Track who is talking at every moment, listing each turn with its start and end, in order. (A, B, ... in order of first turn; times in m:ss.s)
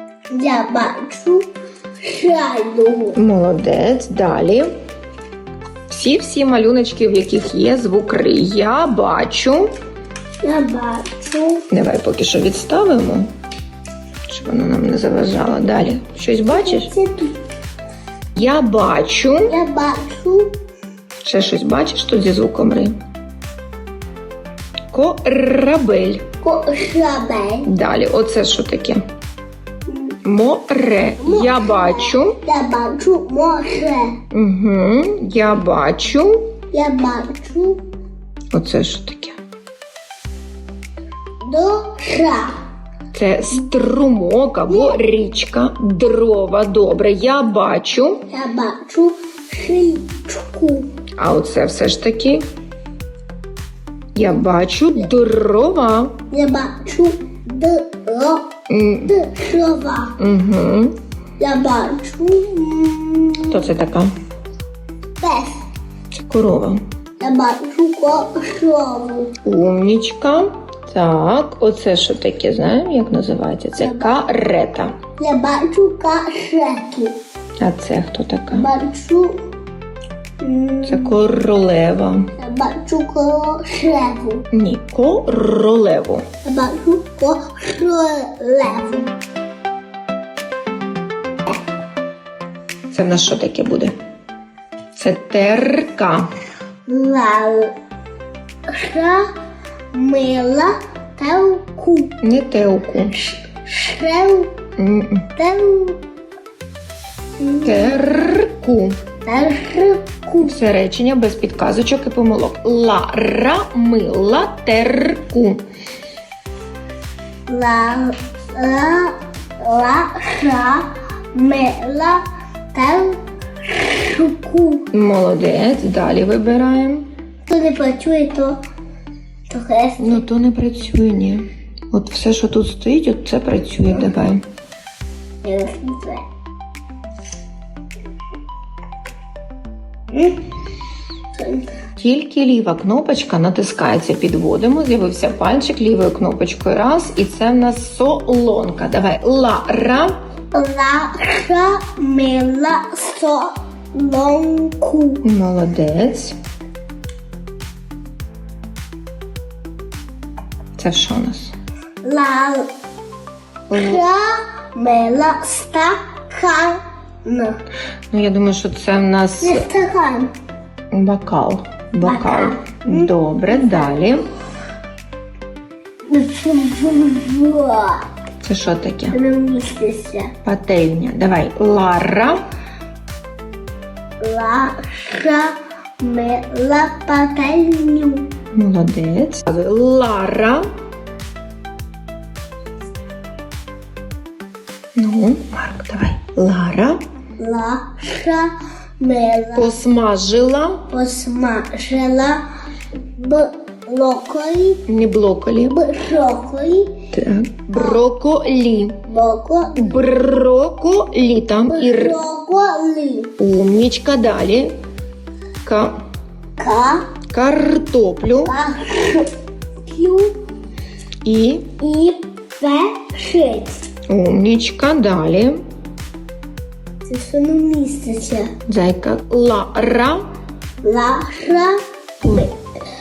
0:00.3-0:01.5 A
0:02.0-0:03.2 A
0:03.2-0:04.7 B
0:05.9-0:09.7 B
0:10.4-0:11.6 A
0:11.7-0:13.3 B
0:14.3-0:16.9 B
0:16.5-0:17.4 A
0:18.4-0:19.5 B
0:19.5-0:20.6 A
0:21.2-0:23.0 B
0:24.9-0:26.2 B
0:26.4-0:27.7 A
0:27.7-0:29.0 B
0:29.9-0:30.2 A
0:30.2-0:32.4 B
0:31.2-0:34.2 A
0:34.3-0:36.4 B
0:36.7-0:37.8 A
0:38.5-0:39.4 B
0:41.4-0:42.6 A
0:43.1-0:48.2 B
0:44.7-0:45.0 A
0:48.3-0:50.9 A
0:51.2-0:52.5 B
0:54.2-0:56.2 B
0:56.3-0:58.5 A
0:58.7-0:59.1 B
0:59.1-1:00.2 A
1:00.2-1:01.0 B
1:01.4-1:03.6 A
1:03.5-1:04.1 B
1:05.2-1:05.6 A
1:06.1-1:06.8 B
1:07.2-1:09.4 A
1:09.4-1:15.0 B
1:13.8-1:14.2 A
1:15.2-1:17.2 A
1:17.6-1:18.7 B
1:18.5-1:19.4 A
1:20.4-1:21.2 A
1:20.8-1:22.3 B
1:22.4-1:24.5 A
1:24.5-1:26.2 B
1:26.4-1:29.1 A
1:32.9-1:34.0 B
1:35.0-1:36.3 B
1:36.9-1:37.7 A
1:38.7-1:39.2 A
1:39.9-1:42.2 A
1:42.2-1:43.2 B
1:43.2-1:44.6 A
1:44.8-1:45.3 B
1:45.4-1:46.0 A
1:47.4-1:48.0 A
1:47.6-1:49.0 B
1:49.2-1:50.6 A
1:50.4-1:55.6 B
1:57.5-2:04.9 A
2:04.9-2:07.1 B
2:07.5-2:08.6 A
2:09.5-2:10.2 A
2:10.0-2:14.4 B
2:15.4-2:16.3 A
2:20.1-2:20.4 A
2:21.4-2:21.7 A
2:22.0-2:30.2 B
2:30.5-2:35.2 A
2:35.2-2:36.4 B
2:40.8-2:41.5 B
2:42.0-2:42.7 A
2:43.7-2:44.0 B
2:43.7-2:47.6 A
2:48.1-2:49.7 B
2:49.4-2:50.3 A
2:50.9-2:54.3 B
2:52.0-2:54.1 A
2:56.1-2:58.1 A
2:58.4-2:59.2 B
2:59.1-3:00.3 A
3:00.4-3:02.4 B
3:04.2-3:08.3 A
3:08.5-3:10.6 B
3:15.0-3:17.0 B
3:17.4-3:18.5 A
3:19.0-3:19.7 A
3:19.5-3:20.8 B
3:20.9-3:22.4 A
3:23.2-3:24.8 A
3:24.9-3:25.8 B
3:25.7-3:27.0 A
3:27.1-3:29.0 B
3:27.7-3:28.0 A
3:29.1-3:30.0 A
3:29.8-3:32.2 B
3:31.7-3:33.3 A
3:33.4-3:34.7 B
3:35.6-3:36.0 B
3:36.6-3:37.1 A
3:37.3-3:38.5 B
3:38.4-3:39.3 A
3:39.9-3:40.4 A
3:41.2-3:41.7 B
3:41.8-3:43.9 A
3:44.1-3:45.6 B
3:47.1-3:48.6 A
3:48.7-3:50.3 B
3:50.8-3:52.6 A